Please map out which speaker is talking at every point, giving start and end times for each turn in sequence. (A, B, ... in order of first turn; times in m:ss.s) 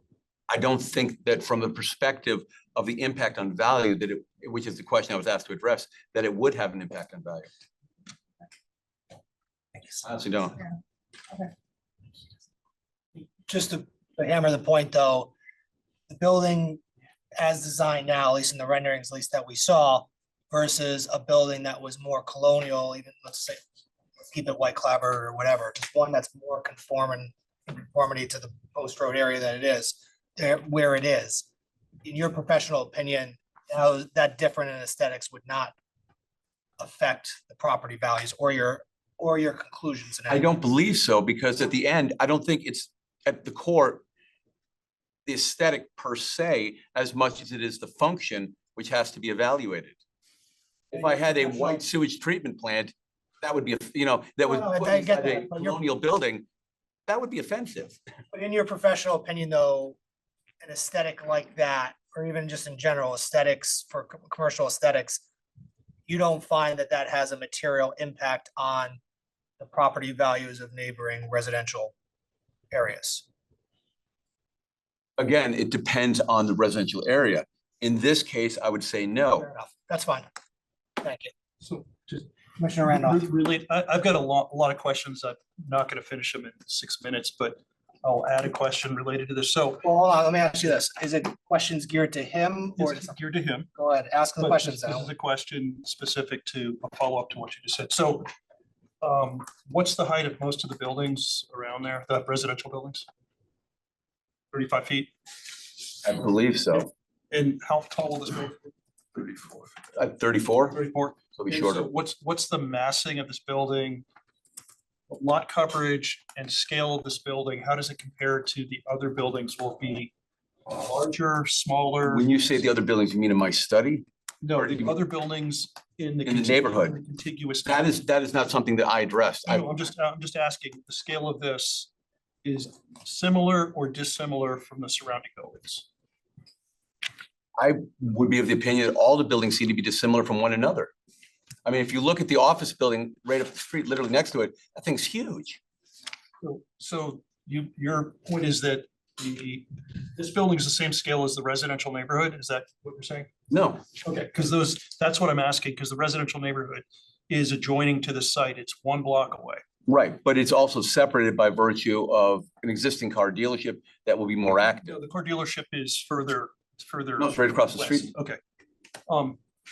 0:00.5-0:07.5 A
0:10.0-0:10.6 A
0:13.5-0:15.3 B
0:16.1-0:16.8 B
0:17.4-0:23.6 B
0:24.2-0:31.5 B
0:32.0-0:35.8 B
0:36.8-0:40.5 B
0:40.3-0:44.0 A
0:45.3-0:50.0 A
0:50.9-0:51.8 B
0:50.9-0:56.4 A
0:54.4-0:55.8 B
0:57.1-0:58.0 A
0:58.3-1:00.0 B
1:00.6-1:05.2 B
1:06.1-1:09.0 B
1:09.6-1:11.9 B
1:12.7-1:13.3 B
1:15.2-1:19.5 A
1:19.4-1:20.3 B
1:21.0-1:21.3 B
1:21.6-1:22.3 C
1:22.6-1:23.2 B
1:22.9-1:29.8 C
1:29.8-1:33.2 B
1:32.8-1:33.7 C
1:33.8-1:35.1 B
1:34.4-1:38.3 C
1:39.0-1:43.1 C
1:44.5-1:45.1 C
1:46.0-1:46.9 A
1:47.3-1:49.7 C
1:50.0-1:50.8 A
1:50.7-1:54.0 C
1:51.4-1:51.9 A
1:55.1-2:00.1 C
2:00.7-2:02.3 C
2:02.0-2:04.0 A
2:04.4-2:07.9 C
2:04.6-2:04.9 A
2:06.3-2:07.0 A
2:07.7-2:09.8 A
2:09.5-2:11.9 C
2:12.4-2:15.9 C
2:17.6-2:20.9 A
2:21.6-2:25.6 A
2:26.4-2:33.3 C
2:33.5-2:33.8 A
2:34.0-2:39.6 C
2:39.9-2:45.0 A
2:44.8-2:48.4 C
2:47.2-2:48.1 A
2:49.1-2:49.4 C